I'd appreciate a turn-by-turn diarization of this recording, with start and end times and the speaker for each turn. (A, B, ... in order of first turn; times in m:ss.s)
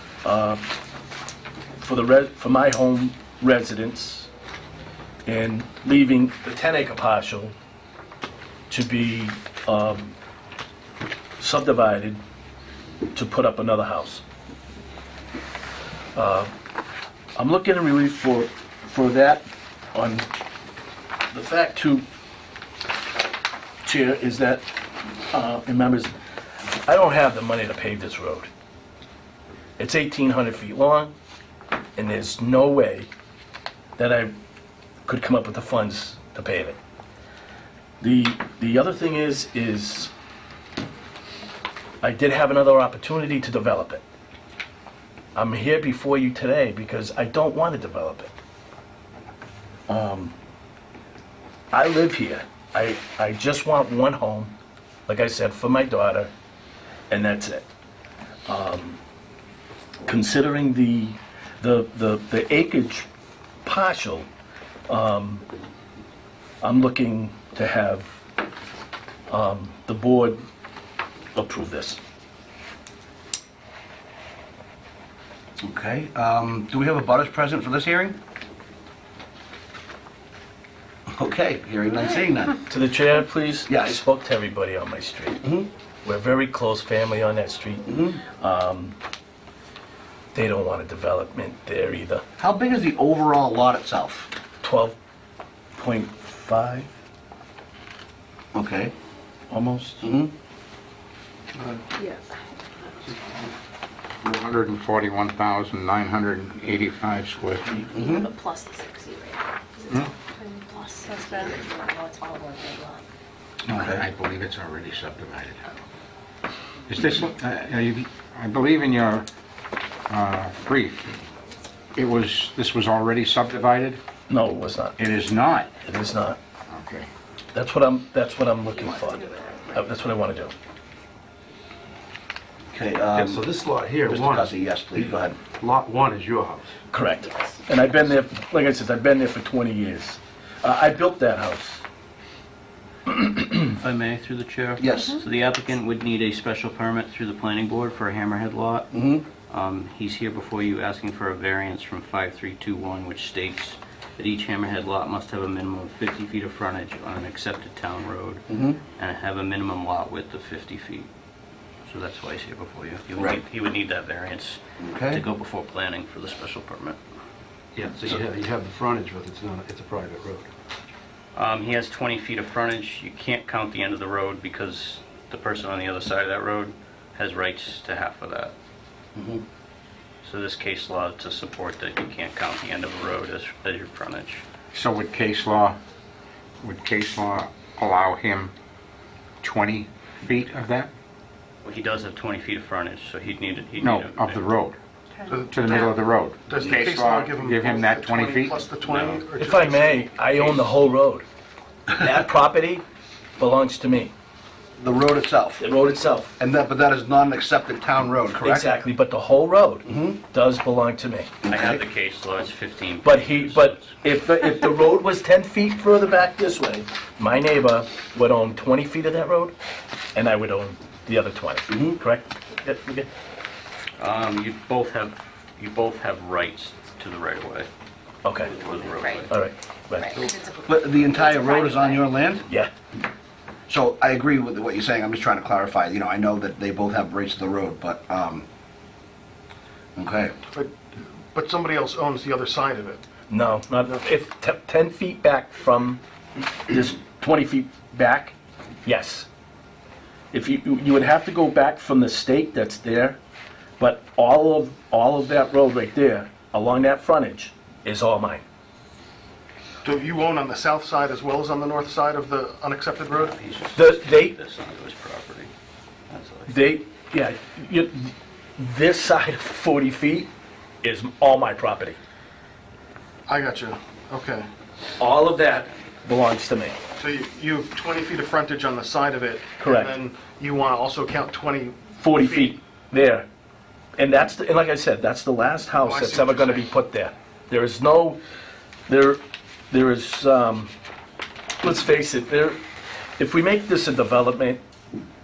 0:00.2-0:00.6 A
0:01.8-0:04.3 A
0:05.3-0:07.5 A
0:08.7-0:10.1 A
0:11.4-0:12.2 A
0:13.1-0:14.2 A
0:16.2-0:16.5 A
0:17.4-0:19.4 A
0:20.0-0:20.3 A
0:21.3-0:22.0 A
0:23.8-0:24.7 A
0:25.3-0:26.1 A
0:26.8-0:28.5 A
0:29.8-0:31.1 A
0:32.0-0:33.1 A
0:34.0-0:34.3 A
0:35.0-0:36.8 A
0:38.0-0:40.1 A
0:42.0-0:44.0 A
0:45.4-0:48.3 A
0:49.9-0:50.4 A
0:51.7-0:54.6 A
0:55.1-0:56.3 A
0:57.1-0:57.6 A
0:58.5-0:59.0 A
1:00.1-1:03.1 A
1:03.6-1:04.3 A
1:04.9-1:05.4 A
1:06.6-1:08.1 A
1:09.3-1:10.4 A
1:11.4-1:12.0 A
1:15.6-1:18.2 B
1:21.1-1:22.6 B
1:22.7-1:25.4 A
1:23.7-1:24.0 B
1:25.4-1:25.7 B
1:26.0-1:29.0 A
1:27.9-1:28.2 B
1:30.3-1:32.2 A
1:32.4-1:34.3 B
1:34.6-1:35.0 A
1:35.8-1:36.9 A
1:38.5-1:38.9 B
1:39.5-1:40.1 A
1:40.0-1:40.3 B
1:42.0-1:42.3 C
1:44.2-1:47.9 D
1:47.9-1:48.3 B
1:47.9-1:53.0 C
1:53.7-1:55.6 D
1:53.7-1:54.0 B
1:56.9-1:59.3 D
2:00.1-2:01.1 D
2:02.0-2:04.0 D
2:04.3-2:05.0 A
2:05.0-2:05.7 D
2:05.8-2:06.4 A
2:06.7-2:07.1 D
2:07.5-2:10.5 A
2:08.8-2:09.8 C
2:12.7-2:13.4 B
2:13.1-2:14.6 E
2:14.1-2:15.4 B
2:15.6-2:16.8 E
2:16.9-2:21.8 A
2:23.5-2:28.9 F
2:24.8-2:25.2 B
2:28.9-2:29.3 B
2:29.5-2:41.1 F
2:38.5-2:38.8 B
2:41.9-2:47.0 F
2:43.2-2:43.4 B
2:44.8-2:45.2 B
2:47.8-2:50.5 E
2:51.4-2:58.5 F
2:59.2-2:59.4 B
3:00.2-3:04.4 F
3:04.7-3:05.8 D
3:06.6-3:08.5 D
3:09.4-3:10.9 D
3:11.6-3:14.5 F
3:13.8-3:14.8 D
3:15.3-3:20.0 G
3:15.5-3:18.6 D
3:19.4-3:21.2 A
3:21.9-3:22.8 A
3:23.4-3:24.1 A
3:24.8-3:25.7 B
3:25.6-3:26.4 A
3:26.4-3:28.8 B
3:28.4-3:31.4 A
3:29.9-3:30.2 B
3:31.4-3:31.8 B
3:31.5-3:34.0 F
3:33.0-3:39.5 A
3:40.2-3:43.1 A
3:41.7-3:42.0 B
3:44.0-3:47.7 F
3:48.2-3:48.6 A
3:48.4-3:49.4 F
3:48.8-3:49.3 C
3:49.3-3:50.2 A
3:50.0-3:52.1 C
3:50.7-3:52.5 B
3:53.7-3:58.5 B
4:00.0-4:00.4 B
4:00.5-4:03.0 G
4:03.3-4:06.0 A
4:06.7-4:08.3 A
4:08.8-4:09.3 A
4:10.3-4:13.2 A
4:13.8-4:18.4 A
4:19.8-4:23.4 G
4:23.1-4:25.5 F
4:23.8-4:24.4 A
4:26.1-4:26.6 F
4:26.5-4:30.3 A
4:30.8-4:32.0 A
4:33.3-4:34.5 G
4:35.0-4:36.8 A
4:37.0-4:42.6 G
4:39.6-4:39.9 A
4:42.0-4:43.3 A
4:44.0-4:48.2 A
4:45.8-4:46.7 G
4:48.9-4:49.2 A
4:49.7-4:50.7 A
4:51.6-4:52.6 A
4:53.2-4:54.6 A